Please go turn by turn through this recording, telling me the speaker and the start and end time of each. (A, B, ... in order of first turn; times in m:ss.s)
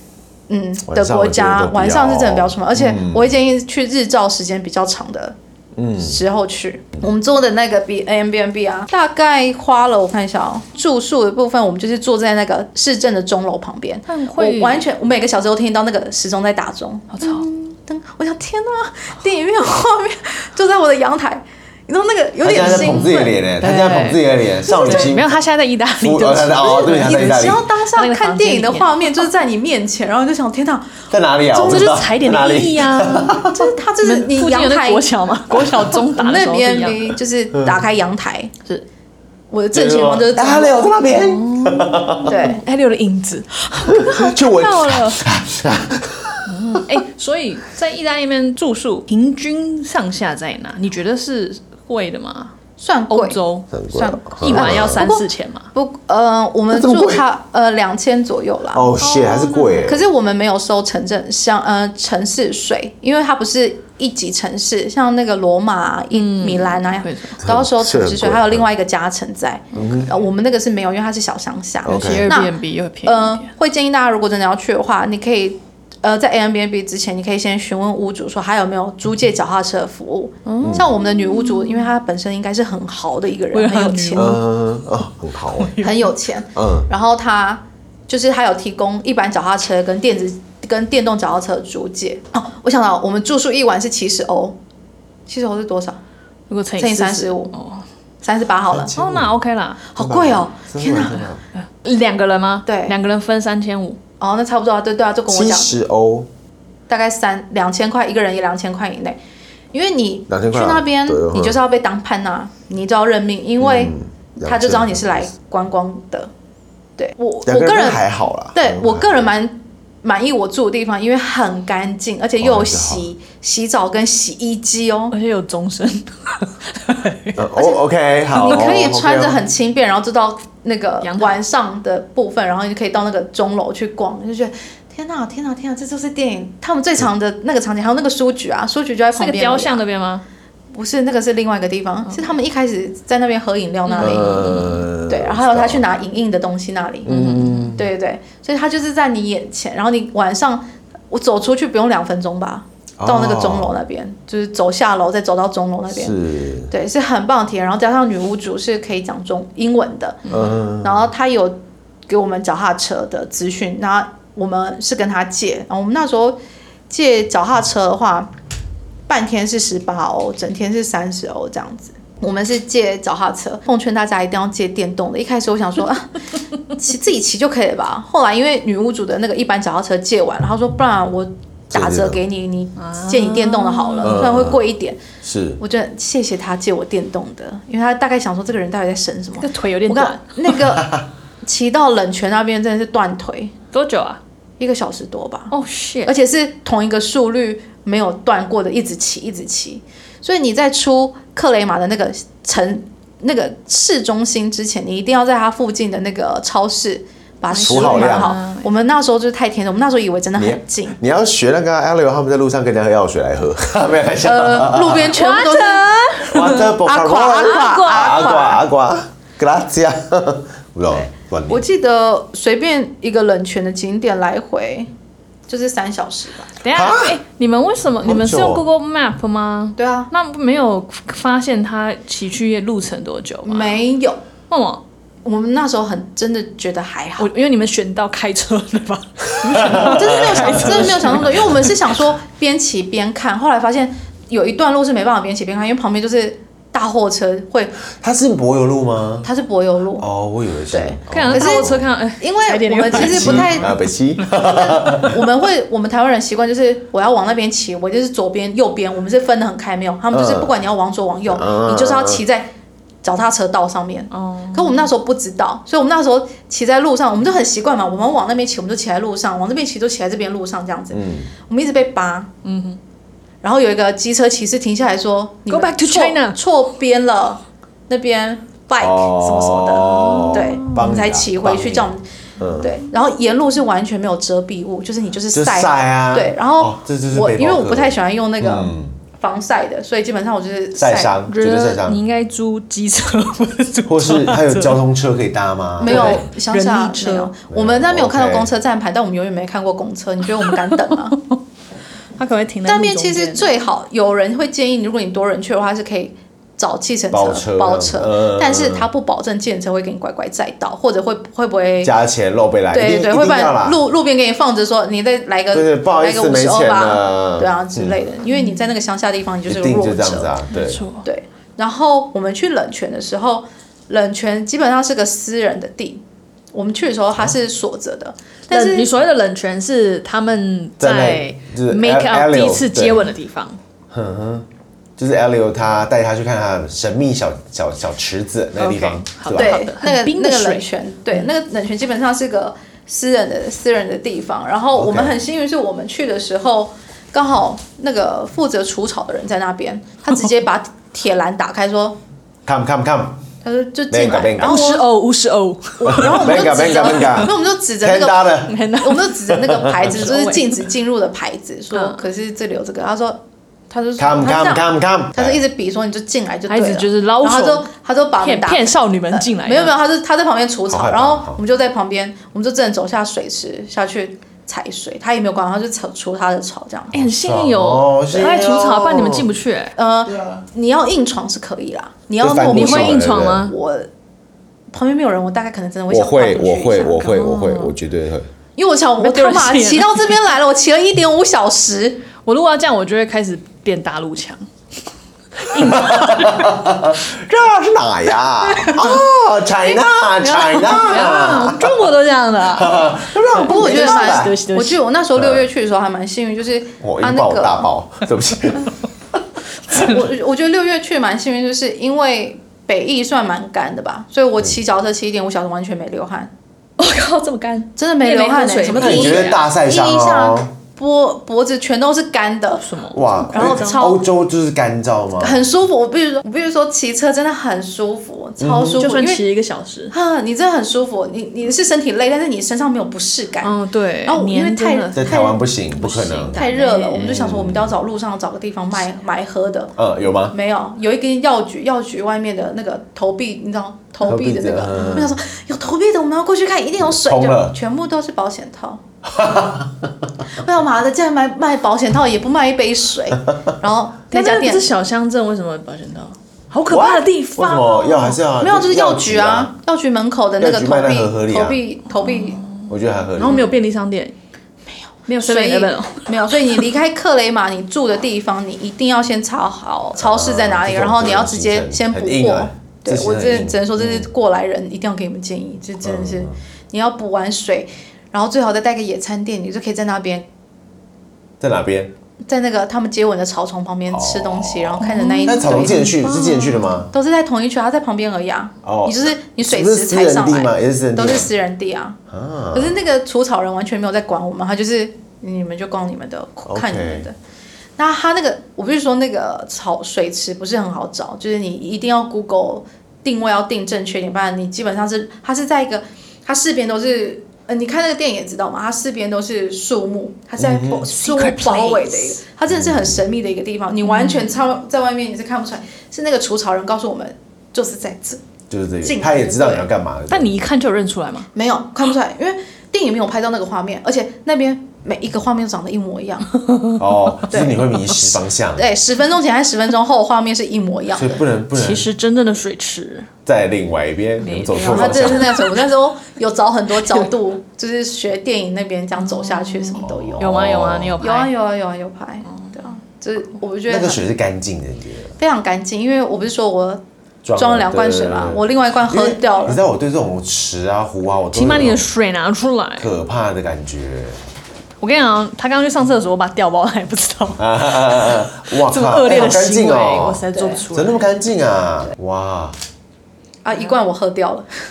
0:00.5-0:05.4 A
0:00.9-0:03.3 B
0:05.8-0:06.2 B
0:06.0-0:23.4 A
0:14.1-0:14.8 C
0:17.1-0:17.4 C
0:22.4-0:25.3 B
0:22.6-0:29.3 C
0:24.8-0:25.1 A
0:26.0-0:27.6 B
0:26.7-0:31.0 A
0:31.1-0:33.7 B
0:31.5-0:33.4 C
0:33.5-0:38.5 A
0:34.0-0:37.2 C
0:39.5-0:41.0 A
0:39.7-0:42.4 B
0:41.1-0:45.2 C
0:42.2-0:42.6 A
0:43.9-0:46.8 B
0:46.5-0:52.5 C
0:52.8-0:53.4 A
0:53.1-0:53.8 C
0:53.7-0:55.0 B
0:53.9-0:59.0 A
0:54.4-0:55.7 C
0:56.7-0:57.2 B
0:58.7-1:00.0 B
0:59.0-0:59.9 C
0:59.8-1:24.4 A
1:06.1-1:07.4 C
1:07.4-1:08.7 B
1:09.7-1:10.1 B
1:11.8-1:12.3 B
1:11.8-1:13.5 C
1:20.4-1:21.8 C
1:20.6-1:20.9 B
1:23.5-1:24.4 C
1:24.1-1:25.8 B
1:25.5-1:26.1 C
1:25.8-1:34.6 A
1:26.6-1:26.9 B
1:35.3-1:36.0 A
1:36.5-1:37.8 C
1:36.8-1:37.5 A
1:38.2-1:39.0 A
1:38.7-1:39.3 B
1:38.9-1:39.8 C
1:39.9-1:41.2 A
1:40.0-1:41.4 B
1:41.6-1:44.0 C
1:42.6-1:42.9 A
1:44.2-1:45.8 A
1:45.3-1:46.3 B
1:46.9-1:49.2 A
1:49.7-1:56.3 A
1:50.3-1:51.6 B
1:53.6-1:55.3 B
1:57.0-1:58.0 A
1:57.4-1:59.2 B
1:58.5-2:05.1 A
2:02.4-2:03.0 B
2:05.1-2:07.4 C
2:07.4-2:09.4 B
2:08.3-2:19.8 A
2:11.0-2:11.4 C
2:19.1-2:20.2 C
2:20.7-2:27.1 A
2:23.9-2:24.8 C
2:24.0-2:25.8 B
2:27.0-2:27.8 B
2:27.1-2:27.8 C
2:27.7-2:36.1 A
2:33.0-2:33.8 B
2:35.9-2:36.7 B
2:36.7-2:40.2 A
2:40.3-2:41.1 B
2:40.8-2:48.3 A
2:49.1-3:05.0 A
3:01.7-3:02.2 B
3:02.8-3:04.3 C
3:04.0-3:04.6 B
3:05.2-3:05.6 B
3:05.6-3:13.5 A
3:09.4-3:10.2 C
3:10.7-3:11.0 B
3:13.7-3:14.2 C
3:14.6-3:15.5 A
3:15.5-3:16.1 C
3:16.0-3:31.0 A
3:27.5-3:28.7 C
3:27.6-3:28.3 B
3:30.4-3:35.2 B
3:34.2-3:36.2 A
3:35.1-3:36.8 C
3:36.2-3:41.6 B
3:36.8-3:38.6 A
3:37.4-3:38.6 C
3:40.9-3:44.9 A
3:45.5-3:46.5 A
3:46.6-3:53.8 C
3:46.7-3:47.2 B
3:48.0-3:48.6 B
3:49.8-3:50.1 A
3:53.4-3:54.2 A
3:54.5-3:54.8 C
3:55.2-3:57.3 A
3:57.2-4:01.7 C
3:59.5-4:02.0 B
3:59.6-4:07.8 A
4:08.0-4:09.3 B
4:09.2-4:10.1 A
4:10.0-4:11.9 B
4:10.7-4:13.7 A
4:11.1-4:13.8 C
4:12.9-4:15.2 B
4:14.2-4:22.5 A
4:20.1-4:20.5 B
4:21.3-4:22.2 B
4:23.0-4:32.3 A
4:24.1-4:24.9 C
4:30.9-4:31.3 B
4:32.4-4:32.8 C
4:33.4-4:42.0 A
4:35.5-4:36.4 C
4:38.8-4:42.7 B
4:39.8-4:40.6 C
4:42.6-4:51.2 A
4:45.3-4:48.9 B
4:50.8-4:52.0 B
4:51.3-4:54.8 C
4:53.8-4:56.2 B
4:55.8-5:01.2 A
4:55.8-4:57.3 C
4:57.5-4:58.5 B
5:00.4-5:01.3 C
5:02.2-5:03.5 C
5:02.6-5:11.9 A
5:07.1-5:08.9 B
5:11.8-5:13.8 B
5:12.7-5:20.4 A
5:15.5-5:18.0 B
5:18.3-5:18.7 C
5:19.4-5:20.8 B
5:20.5-5:21.0 C
5:21.0-5:26.0 A
5:26.5-5:28.9 A
5:28.5-5:33.6 C
5:30.8-5:33.1 B
5:33.9-5:34.5 B
5:35.0-5:39.6 B
5:38.6-5:41.3 C
5:39.4-5:52.0 A
5:44.7-5:45.2 B
5:52.4-5:53.2 B
5:53.4-5:54.8 A
5:53.9-5:54.6 B
5:54.4-5:57.3 C
5:55.8-6:16.9 A
5:55.8-5:58.7 B
5:58.4-5:59.2 C
5:59.2-5:59.9 B
5:59.8-6:00.6 C
6:01.7-6:02.0 C
6:04.0-6:05.4 B
6:06.5-6:07.7 C
6:08.2-6:09.7 C
6:10.7-6:11.4 B
6:16.9-6:19.7 C
6:16.9-6:19.3 B
6:19.8-6:23.9 A
6:20.1-6:20.4 B
6:22.2-6:23.5 B
6:22.5-6:23.5 C
6:24.7-6:27.2 A
6:25.9-6:28.2 B
6:27.0-6:27.7 C
6:28.6-6:32.0 A
6:29.0-6:30.3 C
6:32.2-6:34.4 C
6:35.4-6:36.6 C
6:35.5-6:41.9 B
6:38.4-6:39.0 C
6:40.2-6:44.8 C
6:42.5-6:44.4 B
6:43.5-6:47.7 A
6:45.2-6:45.4 B
6:46.8-6:48.7 B
6:49.7-6:56.3 A
6:56.8-6:59.4 C
6:57.8-7:02.6 A
6:58.7-7:00.5 B
7:02.6-7:03.9 C
7:02.9-7:05.4 B
7:03.3-7:04.0 A
7:05.2-7:09.2 A
7:08.4-7:08.8 B
7:08.7-7:09.9 C
7:09.9-7:13.5 A
7:13.4-7:17.0 C
7:14.0-7:15.4 A
7:15.0-7:16.4 B
7:16.3-7:19.7 A
7:16.9-7:17.7 B
7:19.8-7:20.3 B
7:20.3-7:28.8 A
7:24.0-7:25.1 B
7:24.7-7:25.1 C
7:26.8-7:27.6 B
7:29.0-7:30.1 B
7:30.3-7:34.6 A
7:34.1-7:38.2 C
7:36.6-7:39.5 B
7:38.4-7:42.4 A
7:40.4-7:41.6 B
7:41.9-7:44.1 C
7:42.7-7:43.4 B
7:45.1-7:46.6 C
7:45.2-8:00.3 A
7:50.0-7:54.1 B
7:55.8-7:56.4 B
8:01.4-8:01.9 B
8:02.2-8:12.0 A
8:03.9-8:06.9 B
8:04.8-8:06.7 C
8:08.6-8:11.3 B
8:12.1-8:12.8 B
8:12.5-8:17.1 A
8:16.5-8:17.1 B
8:17.8-8:38.2 A
8:30.4-8:30.9 B
8:30.9-8:32.2 C
8:32.5-8:33.0 B
8:33.8-8:34.3 C
8:38.5-8:40.4 B
8:38.8-8:39.7 A
8:40.1-8:41.3 C
8:41.3-8:46.3 A
8:46.8-8:48.7 B
8:47.3-8:47.6 A
8:48.6-8:51.2 A
8:50.9-8:51.9 B
8:51.5-8:53.1 C
8:53.2-8:55.4 B
8:54.2-8:55.7 C
8:54.6-9:00.4 A
8:59.0-9:01.3 C
8:59.8-9:01.0 B
9:01.0-9:04.0 A
9:03.7-9:05.1 B
9:05.2-9:06.8 A
9:07.2-9:11.9 B
9:07.4-9:09.6 A
9:11.3-9:12.9 C
9:12.8-9:14.2 B
9:14.8-9:21.0 C
9:17.4-9:22.6 B
9:20.3-9:20.6 A
9:23.4-9:24.5 A